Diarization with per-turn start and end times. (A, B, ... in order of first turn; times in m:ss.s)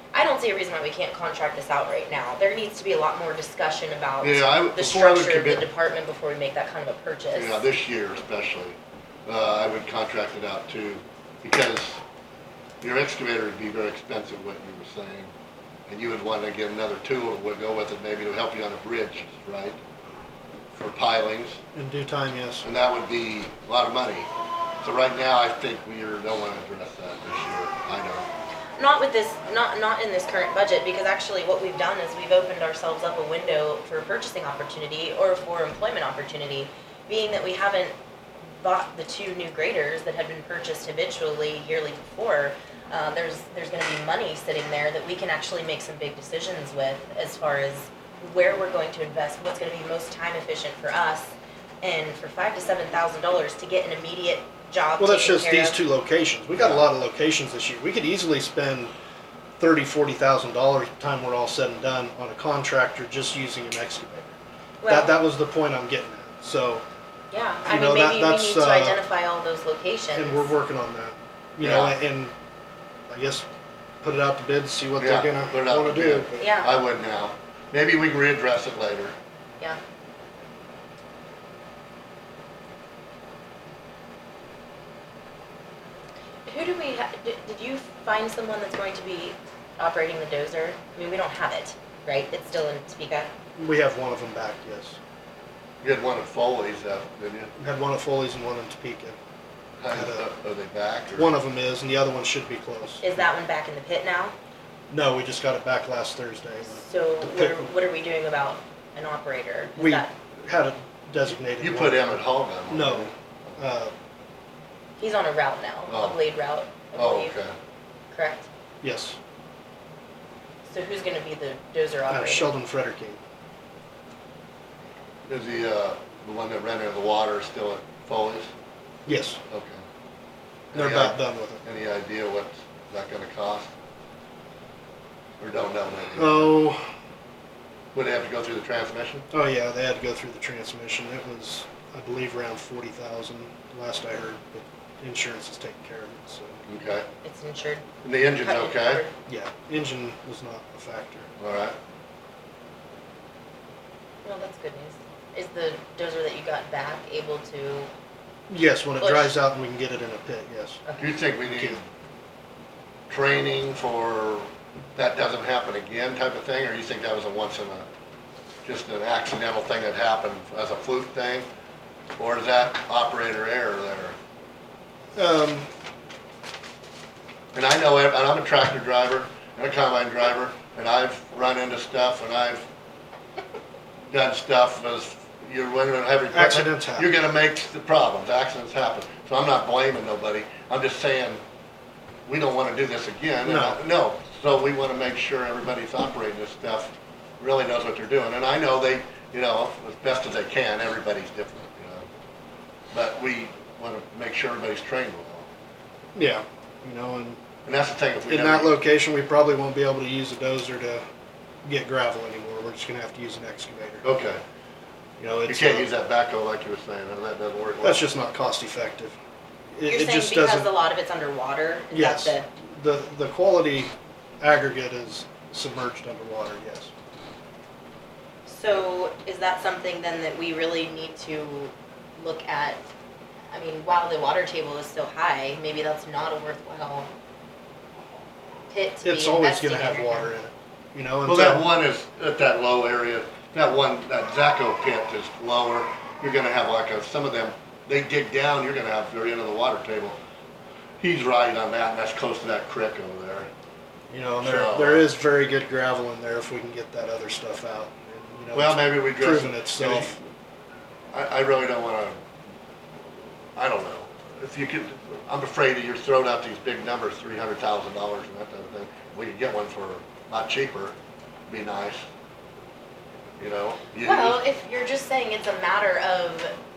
0:00.1-0:07.6 A
0:04.2-0:05.7 B
0:07.3-0:12.0 B
0:12.8-0:15.3 B
0:15.9-0:19.8 B
0:20.7-0:21.6 B
0:21.7-0:22.6 C
0:22.6-0:24.3 B
0:24.8-0:28.3 B
0:28.8-0:37.9 A
0:38.6-0:55.8 A
0:55.0-0:58.9 C
0:56.6-0:56.8 B
0:59.6-1:06.8 C
1:04.8-1:05.2 A
1:07.3-1:10.5 A
1:07.6-1:09.0 C
1:10.1-1:12.3 C
1:11.6-1:12.0 B
1:13.1-1:13.4 C
1:14.0-1:16.5 C
1:15.0-1:19.1 B
1:16.4-1:16.8 A
1:26.4-1:33.3 A
1:33.6-1:35.0 C
1:35.8-1:37.5 B
1:37.6-1:39.2 C
1:39.8-1:41.3 B
1:39.9-1:40.3 C
1:41.1-1:43.1 C
1:43.0-1:44.3 A
1:44.9-1:47.7 C
1:46.6-1:50.1 A
1:49.7-1:53.9 C
1:51.6-1:53.1 B
1:55.0-1:57.3 A
1:55.9-1:56.2 B
1:56.9-1:57.5 B
1:58.1-1:58.5 A
1:58.8-1:59.2 C
2:00.6-2:02.5 A
2:02.1-2:03.2 C
2:05.3-2:08.5 B
2:09.0-2:09.4 C
2:09.5-2:09.8 B
2:10.7-2:13.7 B
2:10.7-2:11.6 C
2:15.4-2:16.5 B
2:16.2-2:16.8 C
2:17.9-2:19.3 B
2:19.3-2:26.6 C
2:26.7-2:27.0 B
2:27.2-2:27.8 A
2:28.0-2:29.0 B
2:28.4-2:29.1 A
2:29.2-2:31.3 C
2:31.4-2:31.8 B
2:34.2-2:37.9 A
2:38.5-2:40.8 C
2:39.0-2:39.3 A
2:40.8-2:41.2 A
2:41.0-2:41.8 B
2:41.4-2:41.8 C
2:43.1-2:47.8 B
2:48.6-2:51.5 B
2:52.2-2:54.1 B
2:55.2-2:55.7 C
2:57.5-3:02.6 B
3:04.1-3:11.4 B
3:06.3-3:07.1 C
3:12.2-3:22.0 B
3:13.4-3:13.8 C
3:22.9-3:25.5 B
3:26.1-3:27.4 C
3:27.6-3:28.7 B
3:28.3-3:31.0 C
3:31.6-3:34.0 C
3:34.0-3:34.4 B
3:35.2-3:35.9 C
3:35.5-3:38.0 B
3:37.8-3:39.2 C
3:39.7-3:40.7 C
3:39.9-3:42.5 A
3:41.9-3:46.9 C
3:48.4-3:52.8 A
3:53.5-3:57.1 A
3:58.7-4:00.3 A
3:59.0-4:01.6 C
4:01.2-4:10.2 B
4:11.0-4:13.5 B
4:14.1-4:20.2 C
4:14.4-4:15.1 B
4:18.5-4:20.2 B
4:21.1-4:22.2 B
4:23.6-4:31.0 B
4:31.5-4:32.0 B
4:33.4-4:34.4 B
4:34.0-4:36.5 A